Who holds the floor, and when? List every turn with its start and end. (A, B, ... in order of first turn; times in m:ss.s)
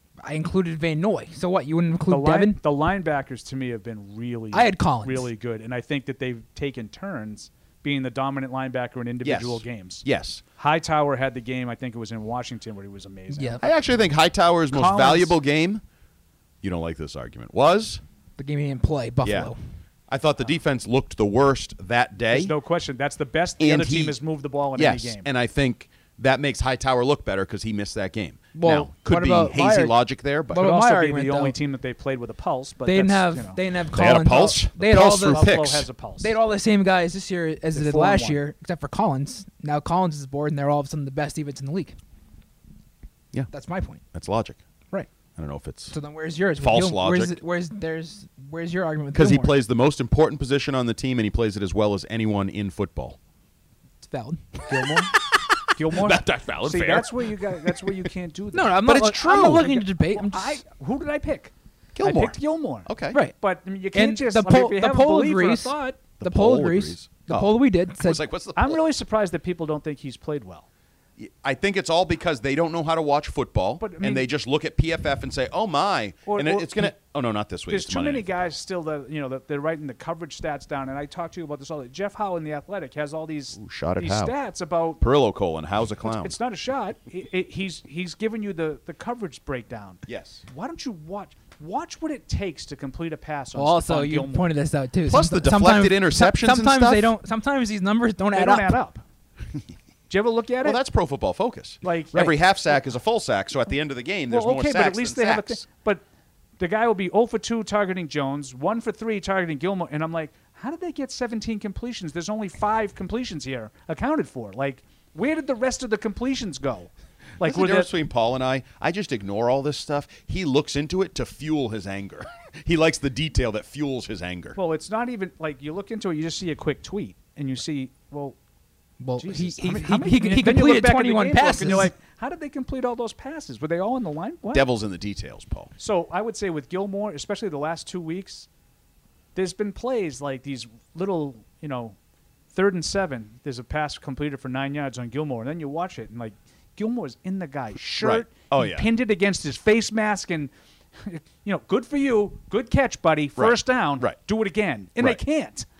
0:00.2-0:02.6 A
0:02.1-0:10.0 B
0:04.5-0:05.3 A
0:09.2-0:10.4 C
0:10.6-0:13.7 B
0:13.3-0:13.6 A
0:13.6-0:15.8 C
0:14.7-0:15.3 B
0:16.6-0:18.0 C
0:18.4-0:19.6 A
0:19.2-0:19.5 C
0:20.1-0:22.5 C
0:22.3-0:25.3 B
0:23.6-0:24.2 C
0:24.7-0:30.7 C
0:28.5-0:29.9 A
0:30.5-0:31.6 A
0:30.5-0:33.6 B
0:32.8-0:35.6 A
0:33.9-0:35.9 C
0:35.0-0:36.3 B
0:36.2-0:41.9 A
0:37.7-0:38.4 B
0:43.5-0:44.0 A
0:44.1-0:44.6 C
0:45.4-0:45.9 C
0:45.9-0:49.6 A
0:46.6-0:47.4 C
0:49.1-0:53.2 C
0:54.0-0:54.6 A
0:54.7-0:55.1 B
0:55.1-0:57.9 C
0:55.7-1:06.0 B
0:58.5-1:00.6 A
0:58.8-0:59.8 C
1:02.0-1:03.2 C
1:03.9-1:08.2 A
1:06.2-1:08.8 C
1:08.6-1:10.7 B
1:11.2-1:18.2 C
1:13.8-1:14.3 B
1:16.2-1:16.9 B
1:17.7-1:25.0 B
1:23.6-1:24.3 C
1:25.0-1:26.4 C
1:26.0-1:34.5 B
1:30.0-1:30.4 C
1:33.6-1:38.8 A
1:35.0-1:37.1 C
1:38.3-1:39.0 B
1:40.1-1:40.8 B
1:40.6-1:45.6 C
1:41.8-1:42.3 B
1:44.3-1:46.0 B
1:46.6-1:57.9 B
1:57.4-2:04.6 C
2:04.5-2:08.4 B
2:09.0-2:11.9 A
2:09.2-2:14.7 B
2:14.5-2:15.7 C
2:15.8-2:18.5 B
2:19.3-2:22.0 B
2:22.5-2:35.6 B
2:27.8-2:28.9 C
2:33.4-2:34.2 C